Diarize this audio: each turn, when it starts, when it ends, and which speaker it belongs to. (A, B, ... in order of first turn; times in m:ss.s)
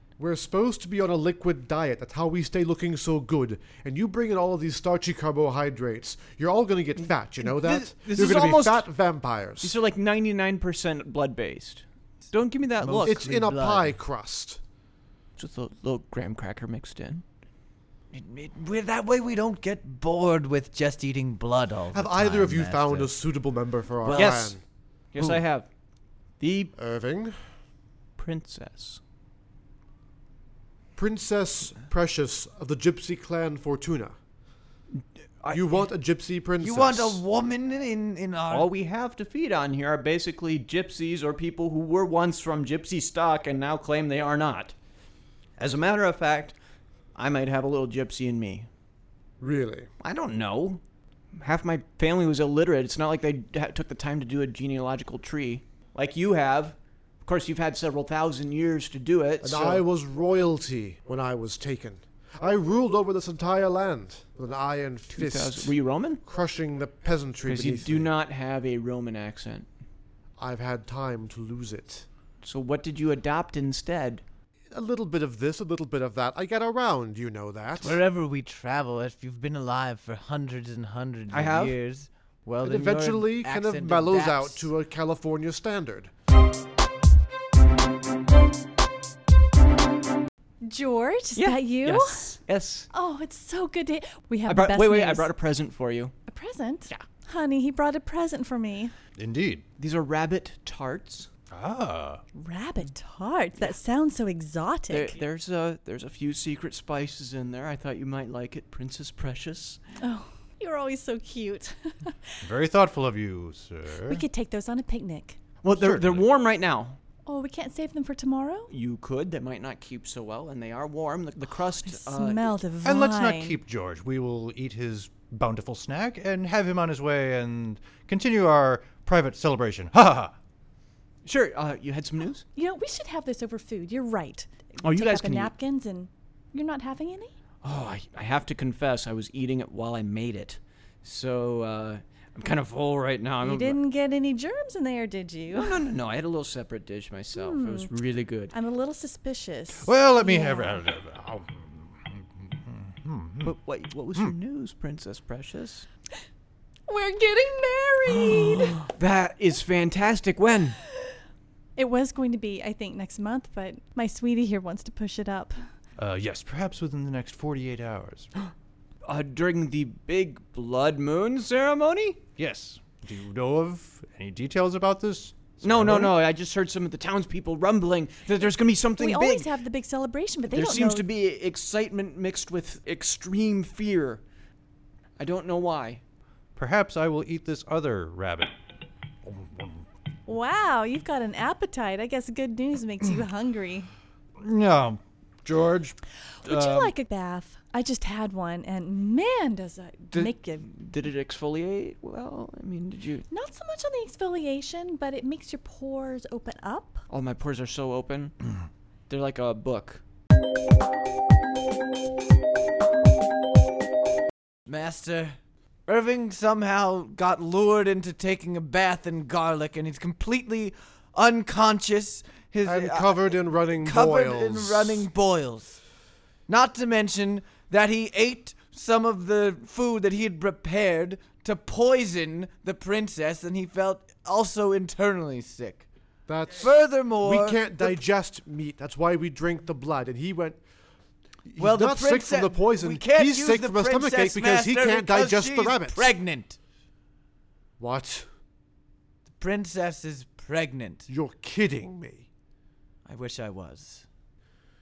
0:00.2-0:09.8 A
0:07.0-0:08.8 B
0:09.6-0:13.2 B
0:12.8-0:14.0 C
0:13.0-0:14.6 A
0:15.4-0:17.2 B
0:18.1-0:23.2 C
0:21.9-0:24.6 A
0:24.0-0:24.5 C
0:24.1-0:24.6 B
0:25.1-0:25.7 B
0:26.4-0:26.7 B
0:26.8-0:27.4 A
0:28.2-0:29.0 B
0:31.0-0:34.2 A
0:35.4-0:35.8 B
0:35.5-0:37.2 A
0:36.6-0:38.7 C
0:38.5-0:44.7 B
0:45.6-0:46.6 B
0:47.2-0:48.7 B
0:49.4-0:49.9 A
0:50.0-0:50.8 B
0:51.4-0:59.8 B
0:59.4-1:05.7 A
1:05.1-1:06.2 B
1:06.2-1:08.1 A
1:07.4-1:09.7 B
1:10.4-1:12.0 A
1:12.4-1:14.2 B
1:14.7-1:18.0 A
1:17.8-1:24.7 C
1:21.3-1:21.8 B
1:22.6-1:26.1 A
1:30.6-1:32.3 D
1:31.4-1:32.9 B
1:32.9-1:35.3 D
1:34.5-1:36.1 B
1:36.3-1:38.9 D
1:39.2-1:39.6 E
1:39.8-1:41.3 B
1:41.5-1:42.2 E
1:42.3-1:45.2 D
1:44.9-1:49.8 B
1:50.0-1:52.1 D
1:52.4-1:54.2 E
1:54.0-1:55.4 D
1:55.6-1:57.0 B
1:55.7-1:56.3 E
1:57.2-1:58.7 D
1:58.7-2:02.6 B
2:01.8-2:03.6 D
2:02.8-2:10.3 E
2:11.2-2:12.4 B
2:12.5-2:17.3 D
2:14.8-2:15.5 B
2:17.6-2:23.8 B
2:23.4-2:25.8 D
2:25.5-2:28.5 B
2:27.3-2:27.9 D
2:28.5-2:30.8 D
2:29.8-2:33.5 E
2:33.4-2:35.8 B
2:36.9-2:38.8 D
2:38.1-2:40.8 B
2:41.8-2:45.6 D
2:46.0-2:48.3 E
2:49.0-2:52.2 B
2:52.4-2:56.2 E
2:55.6-2:59.5 B
2:59.0-3:01.0 D
3:00.5-3:04.2 B
3:05.2-3:06.0 B
3:06.6-3:08.5 E
3:09.2-3:09.8 E
3:10.3-3:13.9 D
3:14.4-3:16.0 E
3:16.4-3:20.7 D
3:16.5-3:16.9 E
3:20.1-3:23.3 B
3:23.3-3:27.0 D
3:27.1-3:28.4 B
3:29.1-3:30.0 B
3:34.6-3:45.7 C
3:42.6-3:45.0 A
3:46.5-3:55.8 C
3:56.3-4:00.6 A
3:56.5-3:58.0 C
4:01.5-4:06.1 A
4:01.6-4:06.6 C
4:07.8-4:08.2 A
4:09.3-4:11.1 C
4:11.1-4:12.3 A
4:13.0-4:14.0 C